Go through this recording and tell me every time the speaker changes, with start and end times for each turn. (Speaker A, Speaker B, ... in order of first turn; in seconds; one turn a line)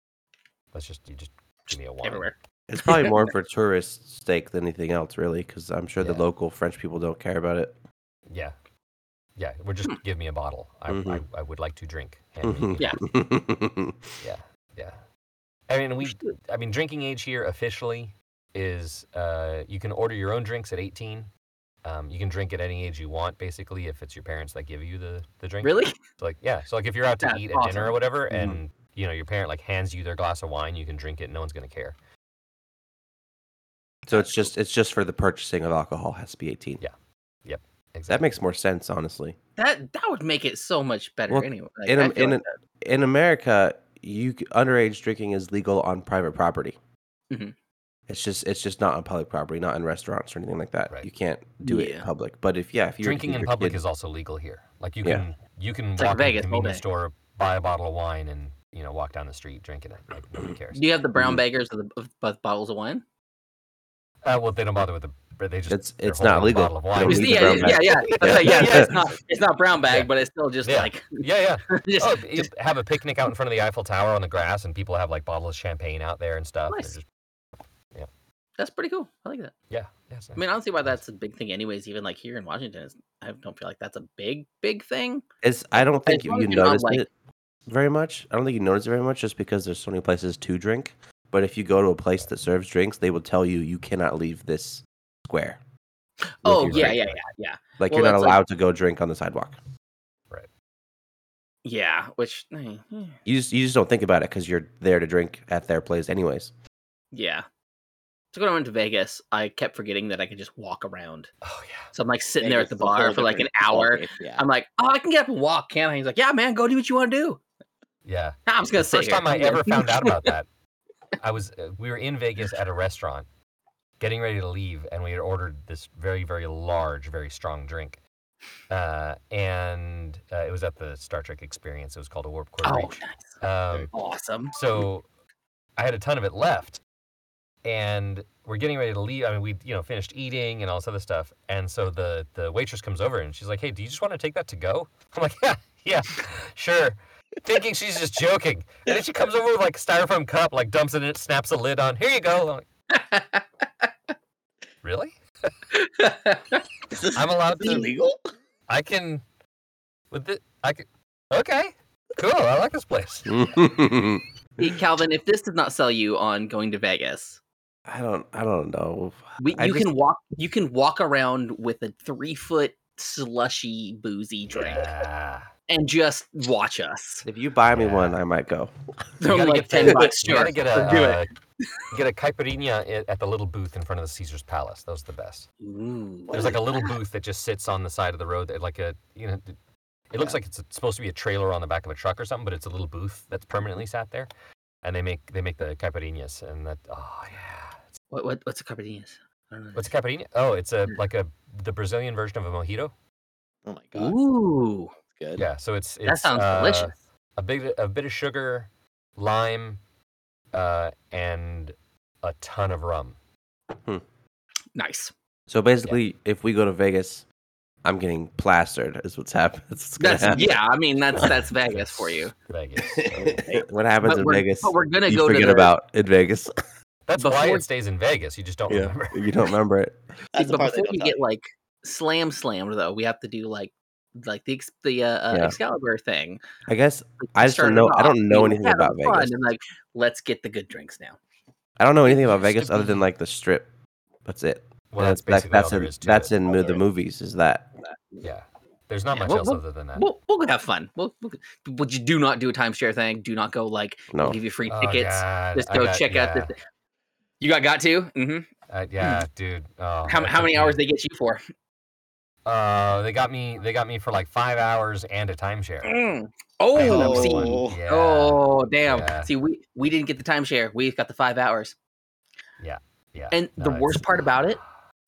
Speaker A: 0.7-2.3
Speaker B: 2.0-3.3
Speaker C: 2.7-7.7
Speaker A: 6.0-6.2
Speaker A: 8.3-8.5
Speaker A: 9.3-12.9
Speaker C: 10.9-11.2
Speaker C: 12.4-14.1
Speaker A: 14.2-15.0
Speaker A: 15.7-21.3
Speaker B: 16.0-16.3
Speaker A: 21.8-31.9
Speaker B: 25.6-25.9
Speaker B: 27.2-27.9
Speaker C: 28.3-28.6
Speaker C: 34.1-36.8
Speaker A: 37.4-38.2
Speaker C: 38.1-39.4
Speaker B: 39.6-42.5
Speaker C: 41.3-46.8
Speaker C: 48.1-53.8
Speaker B: 51.6-52.1
Speaker A: 53.0-60.8
Speaker B: 56.0-56.8
Speaker B: 60.7-63.0
Speaker C: 61.1-61.4
Speaker A: 64.2-69.1
Speaker C: 65.7-68.9
Speaker B: 67.0-72.5
Speaker A: 70.6-77.0
Speaker B: 76.7-77.0
Speaker B: 78.6-79.5
Speaker A: 79.7-81.0
Speaker B: 80.3-85.2
Speaker C: 85.4-87.1
Speaker B: 86.0-87.0
Speaker C: 87.7-95.6
Speaker B: 96.3-98.4
Speaker C: 96.4-97.0
Speaker A: 96.7-97.2
Speaker C: 97.8-99.6
Speaker B: 101.6-103.2
Speaker C: 103.2-106.5
Speaker B: 107.1-107.4
Speaker B: 108.3-111.3
Speaker A: 111.4-111.9
Speaker B: 111.9-117.4
Speaker D: 112.4-114.4
Speaker A: 118.0-120.5
Speaker B: 118.5-120.3
Speaker A: 121.2-123.3
Speaker A: 124.0-128.0
Speaker A: 128.7-133.9
Speaker B: 132.6-133.3
Speaker B: 133.9-134.6
Speaker A: 134.5-135.0
Speaker A: 135.8-136.8
Speaker A: 137.6-152.7
Speaker B: 152.9-153.9
Speaker A: 154.8-155.1
Speaker B: 155.7-156.6
Speaker D: 156.9-158.2
Speaker A: 157.1-157.9
Speaker B: 157.6-157.9
Speaker A: 158.7-159.2
Speaker A: 160.1-163.3
Speaker C: 163.2-164.7
Speaker B: 164.6-167.4
Speaker C: 167.9-169.9
Speaker B: 169.4-174.9
Speaker A: 174.5-175.5
Speaker B: 175.7-177.2
Speaker C: 177.2-178.7
Speaker A: 177.7-178.2
Speaker B: 179.2-181.2
Speaker A: 179.3-181.3
Speaker A: 181.9-185.5
Speaker B: 185.6-186.9
Speaker A: 186.3-189.6
Speaker A: 190.1-194.3
Speaker A: 194.8-197.8
Speaker B: 198.1-199.9
Speaker A: 199.8-202.9
Speaker D: 203.7-204.2
Speaker B: 203.9-204.9
Speaker D: 205.2-205.4
Speaker A: 205.3-209.8
Speaker B: 206.0-206.9
Speaker A: 210.5-213.2
Speaker B: 214.8-215.1
Speaker C: 215.5-217.2
Speaker C: 217.8-220.5
Speaker B: 220.0-222.3
Speaker A: 221.7-223.3
Speaker D: 223.0-223.6
Speaker C: 223.1-226.5
Speaker B: 224.0-225.7
Speaker A: 227.1-229.2
Speaker B: 227.2-227.6
Speaker C: 228.7-230.0
Speaker D: 230.3-231.2
Speaker B: 230.3-236.4
Speaker C: 235.3-235.6
Speaker C: 236.7-239.3
Speaker B: 237.2-241.2
Speaker C: 241.8-243.7
Speaker A: 242.5-242.9
Speaker C: 244.2-247.7
Speaker A: 244.9-246.3
Speaker A: 248.2-250.0
Speaker B: 249.1-256.5
Speaker C: 254.1-254.4
Speaker A: 254.7-256.5
Speaker B: 257.4-258.5
Speaker A: 258.7-260.8
Speaker B: 259.0-259.2
Speaker B: 260.1-261.4
Speaker A: 262.4-266.0
Speaker B: 265.8-271.8
Speaker A: 266.7-269.3
Speaker D: 266.8-267.8
Speaker A: 272.6-274.4
Speaker B: 273.3-274.6